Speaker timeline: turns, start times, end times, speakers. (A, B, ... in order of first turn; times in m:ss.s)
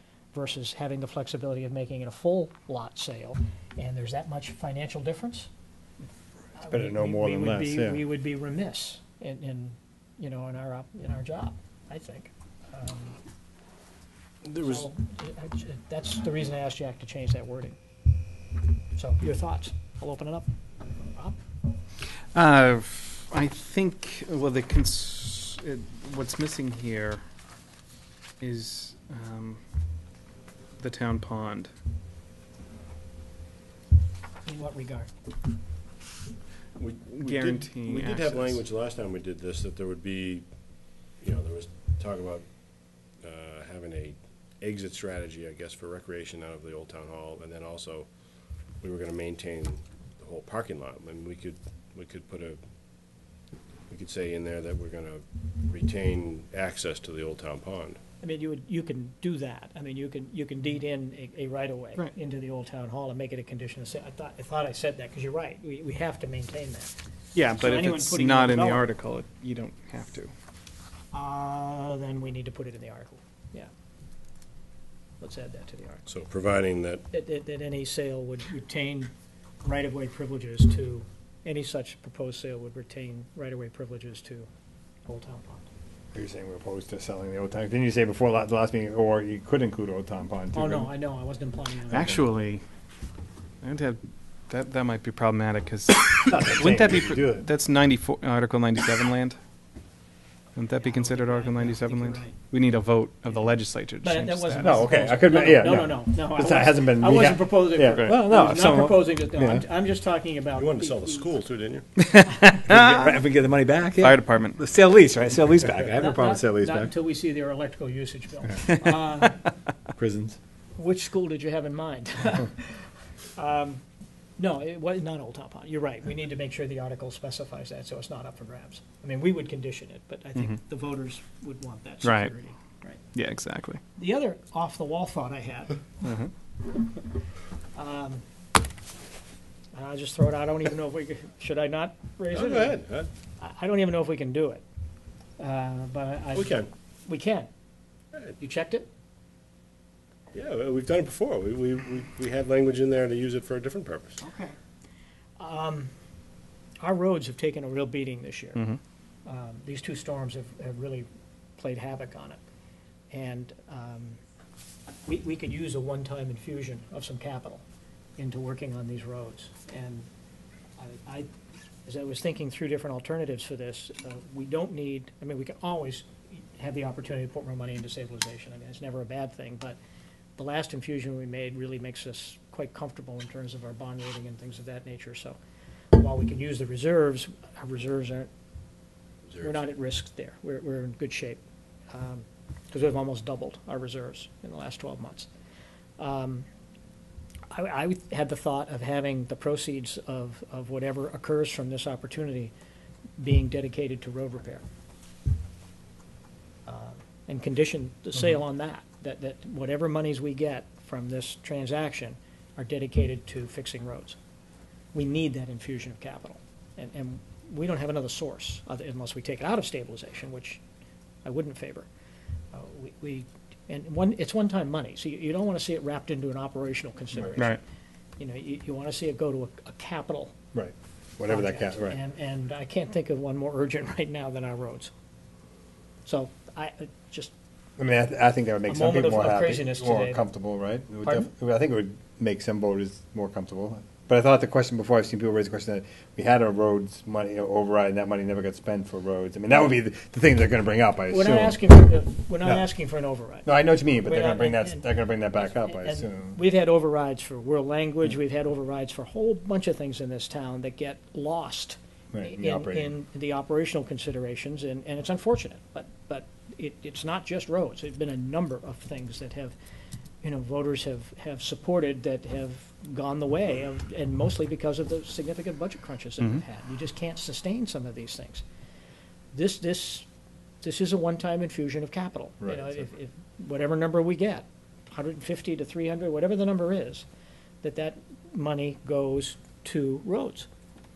0:00.3-0:05.5 A
0:06.6-0:13.2 A
0:06.6-0:08.0 B
0:14.4-0:14.9 C
0:14.6-0:17.8 A
0:19.0-0:20.5 A
0:21.1-0:21.4 A
0:22.3-0:27.2 D
0:28.4-0:29.6 D
0:30.8-0:31.7 D
0:34.4-0:35.1 A
0:36.8-0:52.6 C
0:37.2-0:38.6 D
0:53.9-0:58.0 C
0:58.2-1:06.9 A
1:07.4-1:10.3 D
1:07.6-1:08.8 A
1:11.1-1:13.7 A
1:15.2-1:16.0 A
1:16.1-1:17.0 C
1:17.1-1:19.1 A
1:19.6-1:24.5 A
1:25.1-1:25.7 A
1:26.1-1:30.9 B
1:30.5-1:32.2 A
1:31.9-1:32.6 D
1:33.6-1:39.4 D
1:36.3-1:37.5 B
1:40.6-1:44.8 D
1:40.8-1:42.4 A
1:44.0-1:51.3 A
1:44.6-1:49.6 B
1:48.0-1:48.6 D
1:50.6-1:51.9 C
1:52.0-1:53.1 D
1:52.4-1:56.9 B
1:54.0-1:54.6 D
1:56.0-1:59.4 A
1:59.9-2:00.4 B
2:00.8-2:03.8 A
2:04.4-2:13.0 A
2:12.0-2:12.3 D
2:13.1-2:13.8 D
2:14.0-2:15.8 A
2:16.0-2:16.3 D
2:17.7-2:18.2 A
2:19.7-2:22.8 A
2:22.3-2:23.1 C
2:23.4-2:24.6 A
2:25.4-2:27.5 A
2:26.3-2:26.7 C
2:28.4-2:28.9 A
2:30.3-2:34.2 C
2:34.2-2:34.6 A
2:35.4-2:35.9 A
2:36.8-2:38.6 A
2:39.2-2:42.4 A
2:43.1-2:44.2 A
2:45.1-2:47.6 A
2:48.2-2:50.1 A
2:50.8-2:51.3 A
2:51.9-2:59.8 A
3:00.4-3:05.4 A
3:05.9-3:08.3 A
3:09.4-3:15.3 A
3:16.0-3:16.5 A
3:17.5-3:22.5 A
3:23.2-3:24.6 A
3:26.7-3:34.2 A
3:34.9-3:40.6 A
3:41.2-3:41.9 A
3:42.5-3:47.6 A
3:48.2-3:50.3 A
3:50.5-3:52.0 B
3:51.3-3:54.9 A
3:56.0-3:57.3 A
3:57.8-4:11.6 B
3:58.7-4:00.2 A
4:11.1-4:29.6 A
4:13.4-4:16.4 B
4:22.1-4:22.9 B
4:30.2-4:38.4 A
4:39.3-4:40.1 A
4:40.6-4:47.1 A
4:42.4-4:42.8 B
4:47.6-4:50.5 A